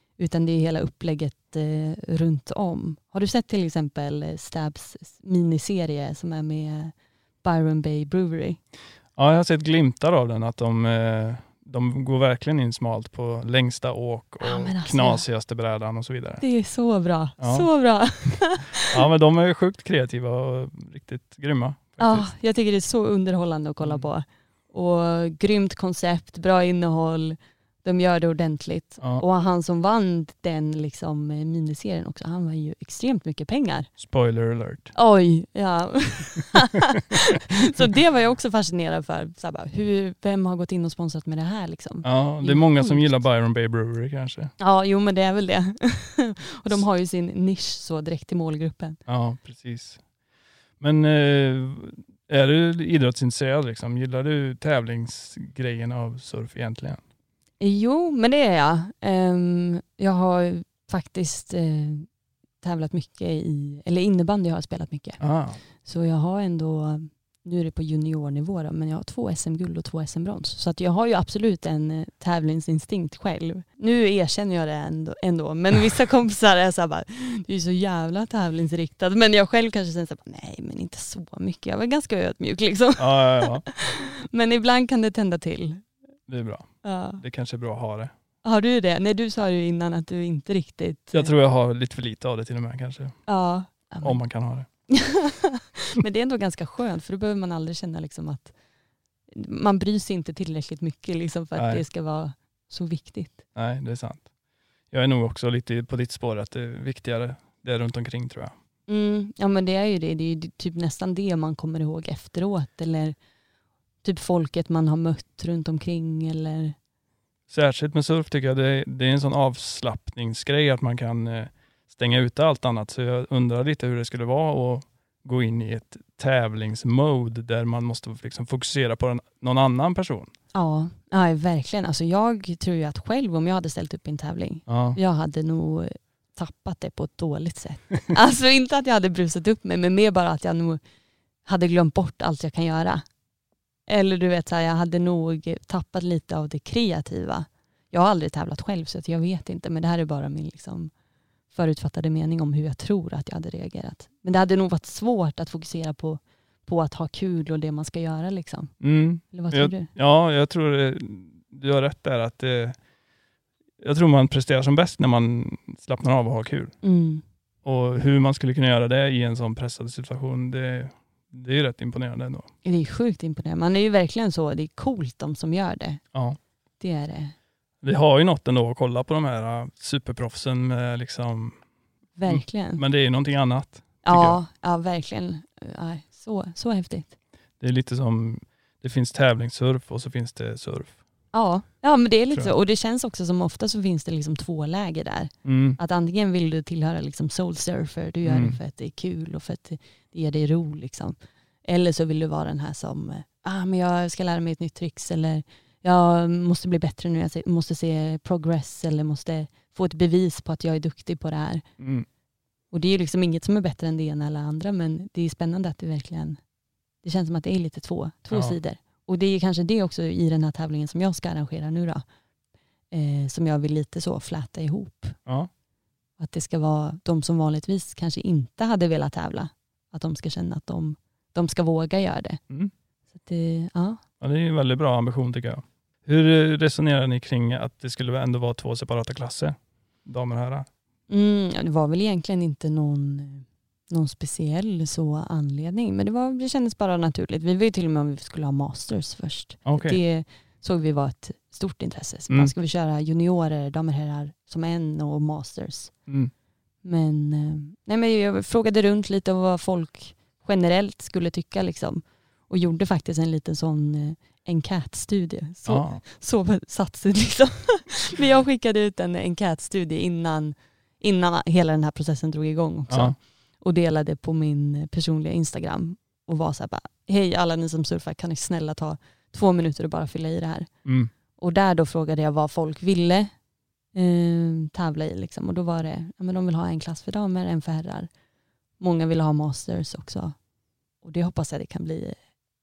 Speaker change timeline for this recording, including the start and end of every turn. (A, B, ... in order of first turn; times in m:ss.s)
0:00.2-0:08.6 A
0:09.2-0:16.4 B
0:14.4-0:15.2 A
0:16.4-0:19.0 A
0:17.4-0:17.7 B
0:18.9-0:22.2 B
0:22.0-0:33.9 A
0:23.8-0:24.1 B
0:34.0-0:34.9 B
0:34.9-0:43.1 A
0:42.0-0:44.5 B
0:44.6-0:49.0 A
0:49.0-0:50.0 B
0:50.8-0:57.0 B
0:57.6-1:02.1 A
1:02.6-1:25.8 A
1:05.2-1:05.6 B
1:23.0-1:23.6 B
1:26.3-1:28.1 B
1:26.8-1:27.2 A
1:28.4-1:31.3 A
1:31.1-1:33.2 B
1:33.3-1:34.2 A
1:34.0-1:34.6 B
1:34.9-1:38.5 A
1:39.3-1:43.4 A
1:41.6-1:41.8 B
1:43.5-1:44.3 B
1:44.9-1:48.5 B
1:48.9-1:53.2 A
1:54.0-1:56.8 A
1:57.5-2:10.3 B
2:10.5-2:20.8 A
2:14.7-2:15.0 B
2:21.4-2:23.0 A
2:23.9-2:30.9 A
2:31.5-2:38.7 A
2:38.8-2:42.8 B
2:39.3-2:39.9 A
2:43.8-2:46.7 B
2:46.8-2:47.2 A
2:47.6-2:52.5 B
2:52.6-2:56.0 A
2:56.1-2:56.4 B
2:56.8-2:57.3 A
2:57.8-3:01.6 B
3:02.2-3:02.8 A
3:02.3-3:04.4 B
3:04.0-3:07.1 A
3:07.6-3:11.0 B
3:11.3-3:31.6 A
3:15.4-3:15.8 B
3:18.2-3:18.6 B
3:31.8-3:32.1 B
3:32.7-3:36.4 A
3:37.0-3:42.0 A
3:38.3-3:38.6 B
3:42.9-3:45.2 A
3:46.2-3:52.4 A
3:53.2-3:54.0 A
3:54.2-4:00.7 B
4:01.1-4:15.9 A
4:09.6-4:10.0 B
4:16.1-4:16.3 B
4:16.8-4:40.7 A
4:25.6-4:26.0 B
4:32.9-4:33.2 B
4:40.8-4:41.1 B
4:41.4-4:43.3 A
4:43.9-4:48.1 A
4:48.8-4:50.4 A
4:51.0-4:52.2 A